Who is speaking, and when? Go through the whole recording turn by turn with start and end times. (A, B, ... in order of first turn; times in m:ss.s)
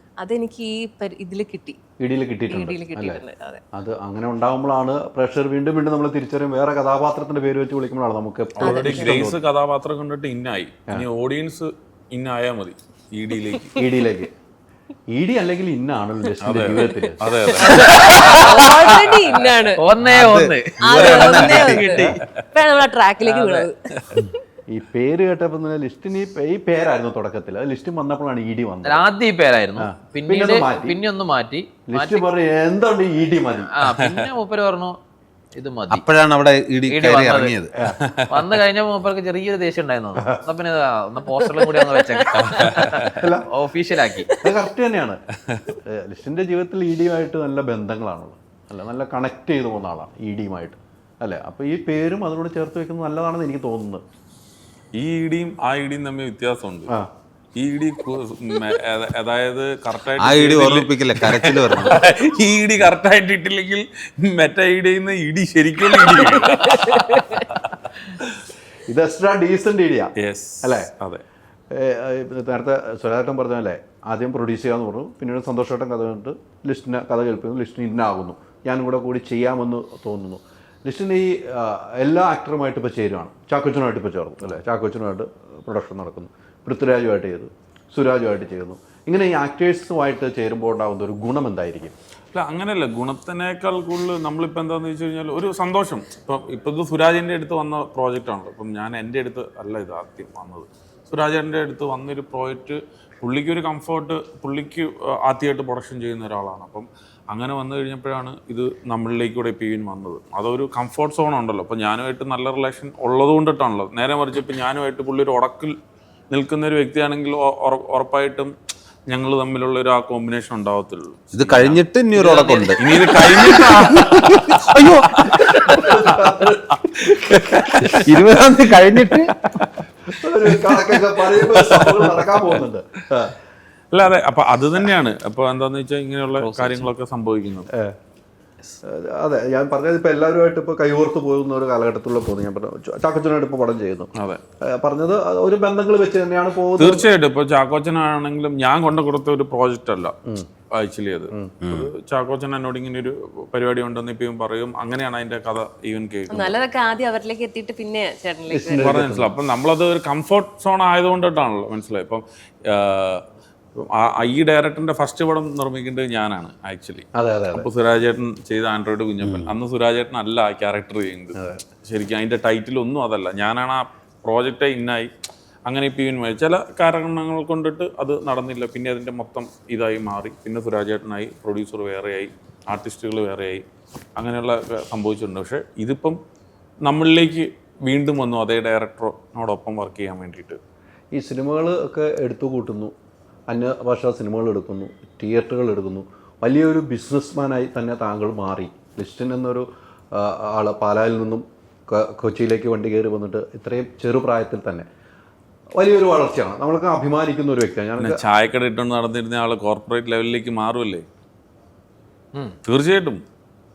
0:00.2-0:01.8 A
0:02.0-0:03.2 B
0:02.5-0:03.6 A
0:03.7-0:09.4 B
0:08.6-0:13.7 C
0:08.6-0:09.2 A
0:13.8-0:14.3 B
0:15.1-0:17.5 B
0:16.4-0:18.2 C
0:17.3-0:19.8 A
0:17.6-0:18.9 D
0:19.8-0:21.9 D
0:20.0-0:21.9 E
0:20.8-0:24.4 A
0:21.6-0:22.2 C
0:23.2-0:23.7 D
0:24.7-0:29.1 B
0:28.8-0:32.3 D
0:29.8-0:31.0 B
0:31.9-0:33.7 B
0:33.7-0:35.0 D
0:35.6-0:36.0 D
0:35.9-0:37.7 E
0:36.9-0:37.7 D
0:38.3-0:44.4 D
0:42.5-0:43.5 B
0:44.3-0:54.0 B
0:54.9-0:56.9 C
0:57.5-1:08.2 C
1:00.2-1:02.0 E
1:08.9-1:10.1 B
1:10.2-1:11.2 C
1:10.6-1:10.9 B
1:11.7-1:31.9 B
1:32.3-1:55.7 C
1:56.3-1:58.5 C
1:59.1-2:04.4 C
2:01.3-2:03.4 E
2:04.3-2:05.5 E
2:05.0-2:06.2 C
2:05.4-2:06.8 B
2:07.3-2:08.0 B
2:07.7-2:08.2 C
2:08.0-2:09.3 E
2:10.1-2:13.4 B
2:10.7-2:12.6 C
2:13.9-2:17.7 C
2:16.4-2:16.9 D
2:18.8-2:24.1 B
2:24.2-2:24.4 C
2:24.7-2:27.1 B
2:26.8-2:30.1 C
2:30.7-2:36.5 C
2:31.6-2:31.9 E
2:36.3-2:38.8 A
2:38.5-2:39.3 B
2:38.8-2:43.2 C
2:43.8-2:55.1 C
2:47.1-2:47.7 B
2:49.2-2:49.5 E
2:51.4-2:51.6 B
2:55.6-3:03.6 C
3:04.2-3:06.2 C
3:06.8-3:10.6 C
3:11.1-3:12.9 B
3:13.5-3:24.8 B
3:25.8-3:28.2 B
3:28.0-3:31.0 C
3:32.6-3:33.2 C